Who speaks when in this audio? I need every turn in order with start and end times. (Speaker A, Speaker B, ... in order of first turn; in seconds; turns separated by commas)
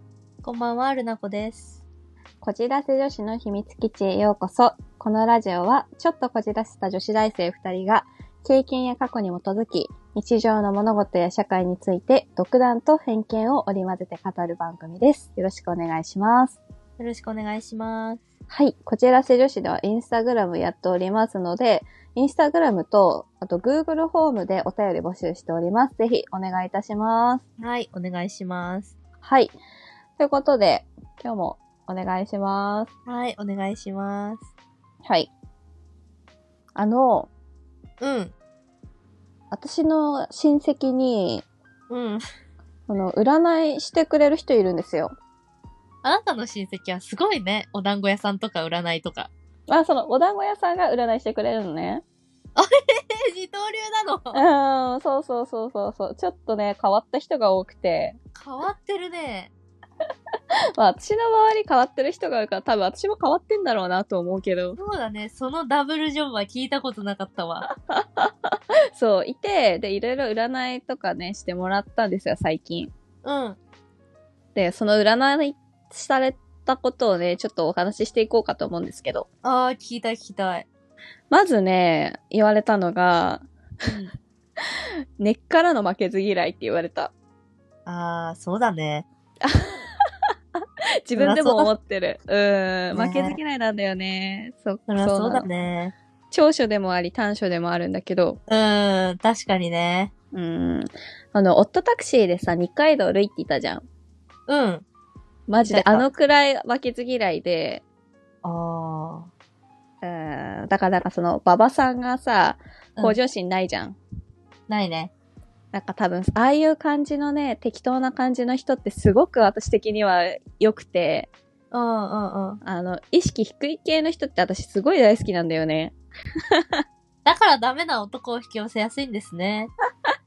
Speaker A: 0.4-1.8, Speaker B: 2.4-16.6, Speaker A: 17.0-18.2, Speaker B: 18.5-27.4, Speaker A: 27.6-28.9, Speaker B: 29.2-29.5, Speaker B: 30.2-32.9, Speaker A: 33.1-34.5, Speaker B: 35.0-35.3, Speaker B: 36.8-37.3, Speaker A: 38.0-38.3, Speaker B: 39.5-41.4, Speaker A: 41.9-42.2, Speaker B: 42.9-45.1, Speaker A: 46.0-49.3, Speaker B: 49.7-52.0, Speaker A: 52.5-54.4, Speaker B: 54.3-58.2, Speaker A: 58.3-59.5, Speaker B: 60.8-64.8, Speaker A: 64.8-67.7, Speaker B: 67.7-72.9, Speaker A: 73.2-73.6, Speaker B: 74.5-79.3, Speaker A: 79.4-80.7, Speaker B: 81.3-83.4, Speaker A: 83.8-84.1, Speaker B: 85.2-87.1, Speaker A: 87.8-89.0, Speaker B: 89.4-90.0, Speaker B: 90.6-95.5, Speaker A: 91.1-91.7, Speaker A: 92.9-93.4, Speaker A: 94.9-95.9, Speaker B: 96.3-98.4, Speaker A: 98.5-100.1, Speaker B: 100.3-103.8, Speaker A: 104.5-104.8, Speaker B: 105.5-107.8, Speaker A: 105.7-106.0, Speaker A: 108.4-109.3, Speaker B: 110.0-114.0, Speaker A: 114.7-115.1, Speaker B: 115.7-121.3, Speaker A: 121.7-122.6, Speaker B: 122.6-125.9, Speaker B: 126.5-126.8, Speaker A: 127.2-129.7